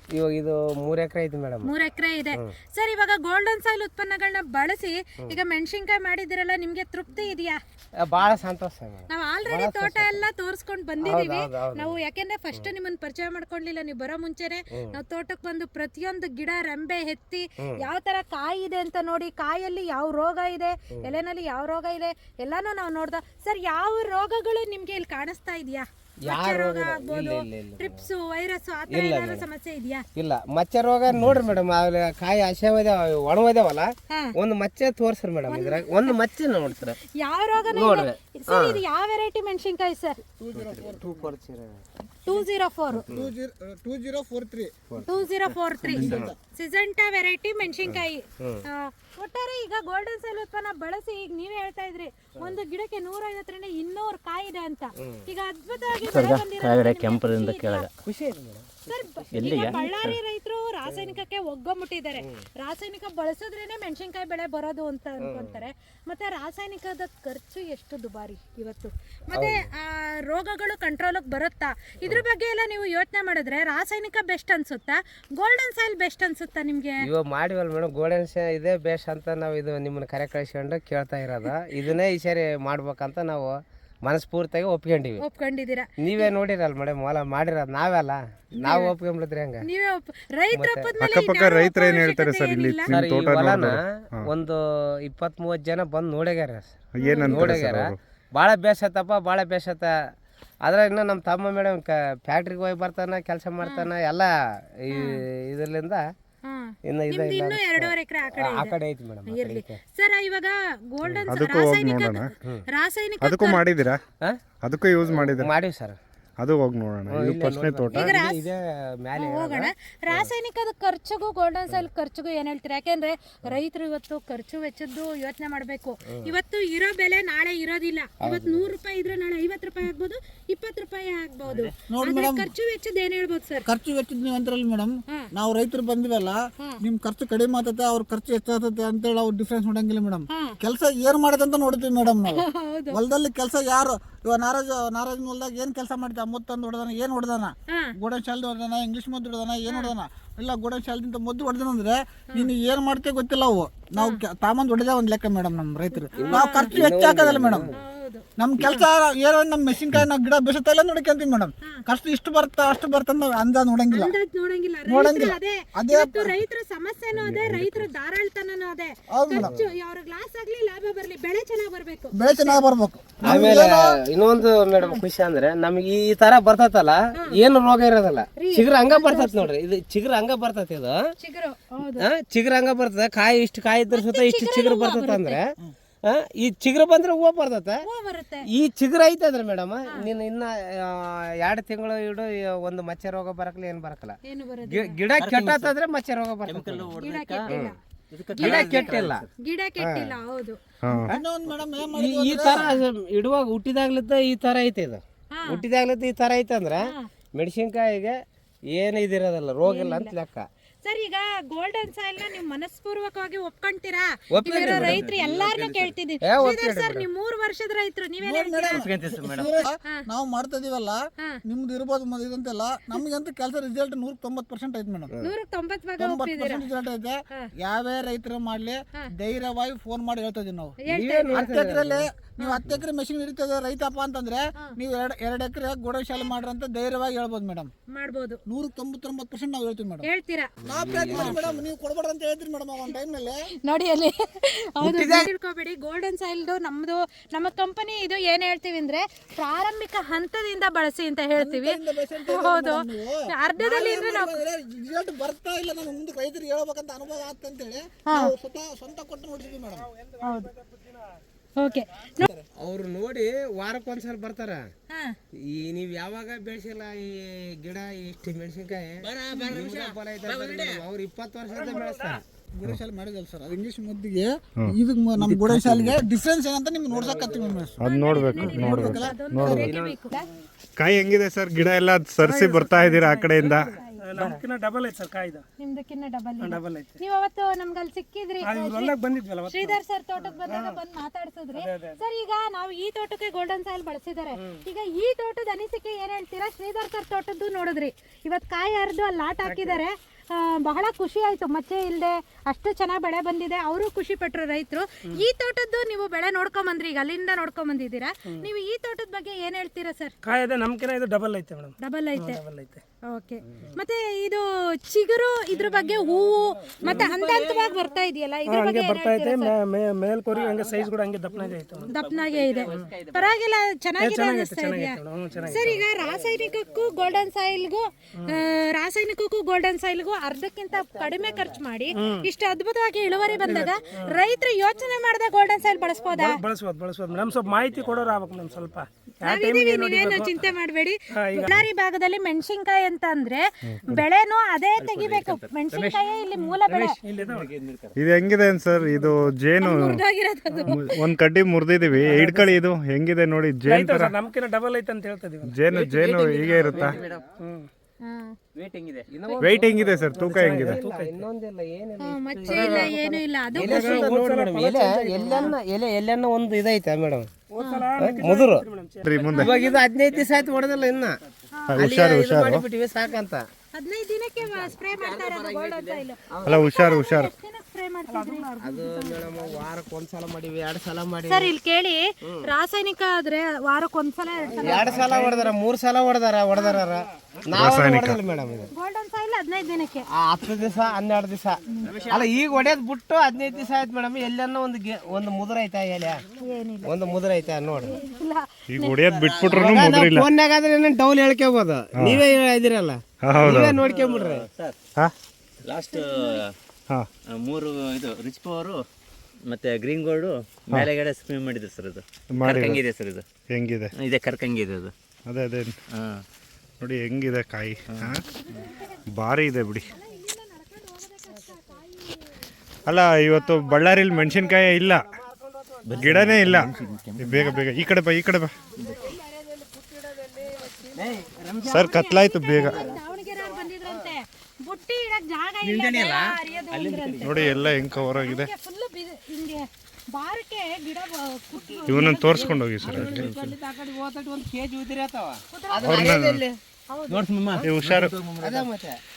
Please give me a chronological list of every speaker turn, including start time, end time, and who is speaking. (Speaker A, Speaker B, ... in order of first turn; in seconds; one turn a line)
Speaker A: 0.1-1.7
Speaker B: 1.6-7.6
Speaker A: 8.0-10.2
Speaker B: 9.1-30.0
Speaker A: 11.0-11.9
Speaker A: 14.7-15.0
Speaker A: 17.6-17.8
Speaker A: 26.2-28.1
Speaker A: 28.9-29.5
Speaker A: 30.1-37.0
Speaker B: 35.5-36.2
Speaker B: 36.8-40.2
Speaker A: 37.6-38.8
Speaker C: 40.4-41.3
Speaker A: 40.5-41.8
Speaker B: 42.2-43.0
Speaker C: 43.0-44.8
Speaker A: 44.9-45.1
Speaker B: 45.0-57.9
Speaker A: 45.8-46.3
Speaker C: 46.1-46.4
Speaker A: 47.9-48.6
Speaker A: 55.0-55.2
Speaker D: 56.0-57.9
Speaker A: 58.0-59.8
Speaker B: 58.9-77.0
Speaker D: 59.3-60.2
Speaker A: 60.9-61.2
Speaker A: 62.2-62.4
Speaker A: 65.2-65.6
Speaker A: 69.3-69.7
Speaker A: 77.0-85.2
Speaker B: 85.2-86.3
Speaker A: 86.0-89.7
Speaker B: 88.6-88.9
Speaker B: 89.6-93.0
Speaker A: 90.5-90.9
Speaker E: 91.0-94.2
Speaker A: 92.9-100.0
Speaker E: 96.9-98.0
Speaker B: 97.0-97.6
Speaker A: 100.6-106.0
Speaker B: 103.6-103.9
Speaker B: 104.9-105.2
Speaker B: 106.4-108.7
Speaker A: 106.8-109.8
Speaker B: 109.3-113.6
Speaker E: 111.3-112.3
Speaker E: 113.2-114.0
Speaker E: 114.6-115.5
Speaker A: 115.1-116.0
Speaker E: 116.4-118.1
Speaker A: 117.1-120.3
Speaker B: 117.9-118.4
Speaker B: 119.2-133.7
Speaker A: 126.1-126.3
Speaker A: 128.2-128.7
Speaker D: 131.5-131.7
Speaker C: 131.9-132.5
Speaker C: 133.7-157.7
Speaker B: 140.3-140.6
Speaker B: 142.3-143.0
Speaker B: 147.7-147.9
Speaker B: 149.7-149.9
Speaker B: 154.0-154.2
Speaker B: 156.2-156.7
Speaker A: 156.2-157.7
Speaker B: 157.7-158.9
Speaker C: 158.4-164.1
Speaker B: 163.9-172.6
Speaker C: 164.9-166.4
Speaker C: 169.1-169.5
Speaker A: 169.3-169.7
Speaker C: 172.1-174.0
Speaker A: 173.2-181.1
Speaker B: 178.4-179.5
Speaker B: 181.2-182.1
Speaker A: 182.0-187.8
Speaker B: 183.9-185.4
Speaker B: 187.8-188.5
Speaker A: 188.5-196.9
Speaker B: 194.2-195.0
Speaker D: 195.1-195.7
Speaker D: 196.4-199.3
Speaker B: 197.0-197.8
Speaker A: 197.5-197.7
Speaker B: 198.3-200.6
Speaker A: 198.4-199.2
Speaker A: 199.8-200.2
Speaker C: 201.1-202.8
Speaker A: 201.1-208.2
Speaker B: 205.3-205.6
Speaker B: 206.8-207.1
Speaker A: 208.7-210.5
Speaker B: 209.6-210.1
Speaker B: 210.8-218.9
Speaker A: 214.3-215.1
Speaker D: 214.5-215.9
Speaker A: 216.2-217.1
Speaker C: 218.2-225.1
Speaker D: 218.7-219.5
Speaker B: 219.4-220.1
Speaker B: 225.2-226.7
Speaker C: 226.0-230.8
Speaker B: 230.8-231.5
Speaker A: 230.9-232.0
Speaker C: 231.3-237.7
Speaker B: 232.4-232.6
Speaker B: 237.9-238.4
Speaker C: 238.5-240.1
Speaker B: 240.0-240.5
Speaker C: 240.6-243.3
Speaker A: 240.6-241.6
Speaker B: 243.6-254.4
Speaker A: 244.8-245.3
Speaker C: 251.3-259.9
Speaker B: 258.1-258.3
Speaker B: 260.2-260.5
Speaker B: 261.6-262.3
Speaker A: 262.5-264.7
Speaker B: 264.9-265.1
Speaker A: 265.3-272.2
Speaker D: 269.0-270.8
Speaker B: 269.3-269.6
Speaker F: 271.6-272.2
Speaker C: 272.4-277.8
Speaker D: 275.2-275.7
Speaker A: 276.9-277.7
Speaker E: 277.8-279.7
Speaker B: 277.8-280.3
Speaker C: 278.4-279.7
Speaker A: 279.5-280.0
Speaker E: 280.8-283.7
Speaker F: 282.2-283.1
Speaker B: 283.4-284.4
Speaker F: 284.0-285.4
Speaker B: 285.6-310.1
Speaker F: 286.4-287.0
Speaker F: 288.4-289.8
Speaker F: 290.4-290.8
Speaker F: 291.6-292.0
Speaker F: 299.4-299.8
Speaker F: 310.2-312.8
Speaker B: 311.8-312.4
Speaker B: 313.0-319.5
Speaker F: 316.8-317.1
Speaker D: 316.8-317.8
Speaker F: 318.4-321.9
Speaker D: 320.3-320.8
Speaker D: 321.4-323.4
Speaker B: 321.9-336.4
Speaker F: 324.0-325.8
Speaker F: 331.9-332.3
Speaker F: 333.4-334.2
Speaker F: 336.1-340.4
Speaker B: 339.2-347.0
Speaker F: 341.1-341.6
Speaker E: 343.7-344.0
Speaker D: 344.8-346.0
Speaker D: 346.7-347.9
Speaker F: 347.0-347.5
Speaker E: 347.9-350.0
Speaker B: 349.6-351.0
Speaker E: 350.6-354.1
Speaker F: 352.0-352.6
Speaker F: 353.6-355.5
Speaker E: 355.4-357.0
Speaker D: 355.7-357.2
Speaker F: 357.4-357.7
Speaker B: 358.0-358.4
Speaker D: 358.5-359.1
Speaker A: 359.1-367.3
Speaker E: 359.4-360.8
Speaker F: 360.1-361.2
Speaker B: 362.0-364.1
Speaker F: 362.4-362.9
Speaker F: 363.5-365.5
Speaker B: 365.3-365.5
Speaker F: 367.5-369.5
Speaker B: 367.6-367.9
Speaker A: 368.0-368.6
Speaker E: 369.0-369.6
Speaker B: 369.3-369.8
Speaker A: 369.4-371.2
Speaker B: 371.6-371.9
Speaker E: 371.7-372.6
Speaker A: 371.7-373.4
Speaker B: 373.7-379.3
Speaker D: 374.5-376.0
Speaker A: 376.3-376.6
Speaker E: 376.4-377.3
Speaker F: 378.1-378.5
Speaker A: 378.6-381.5
Speaker B: 381.3-385.2
Speaker A: 384.5-388.7
Speaker F: 384.8-385.4
Speaker B: 386.5-386.8
Speaker E: 387.5-388.2
Speaker B: 388.7-390.0
Speaker A: 390.1-396.2
Speaker D: 391.8-392.3
Speaker B: 396.4-397.0
Speaker A: 396.8-398.0
Speaker B: 397.8-399.0
Speaker E: 398.7-400.3
Speaker D: 399.1-399.8
Speaker A: 399.5-404.5
Speaker E: 402.0-402.2
Speaker E: 403.2-403.8
Speaker D: 403.4-404.8
Speaker D: 405.6-406.5
Speaker B: 405.9-406.4
Speaker D: 407.3-408.8
Speaker D: 409.4-413.2
Speaker E: 412.3-412.8
Speaker E: 413.5-413.9
Speaker D: 413.9-414.9
Speaker E: 415.2-415.7
Speaker D: 415.9-416.2
Speaker E: 416.8-418.2
Speaker D: 417.9-418.1
Speaker B: 418.3-418.9
Speaker E: 419.1-419.9
Speaker B: 419.9-422.2
Speaker E: 422.9-425.0
Speaker A: 424.1-427.0
Speaker D: 425.8-427.6
Speaker E: 425.9-428.5
Speaker D: 428.8-429.1
Speaker A: 429.0-431.3
Speaker D: 430.9-431.9
Speaker E: 431.6-432.8
Speaker B: 431.7-442.6
Speaker A: 432.6-434.1
Speaker D: 432.6-432.9
Speaker D: 435.6-437.8
Speaker E: 437.2-438.5
Speaker E: 441.9-443.3
Speaker A: 442.0-446.6
Speaker D: 442.9-443.5
Speaker B: 445.5-446.1
Speaker E: 445.8-446.4
Speaker B: 446.9-447.2
Speaker D: 447.1-448.7
Speaker E: 447.6-448.1
Speaker A: 448.4-449.0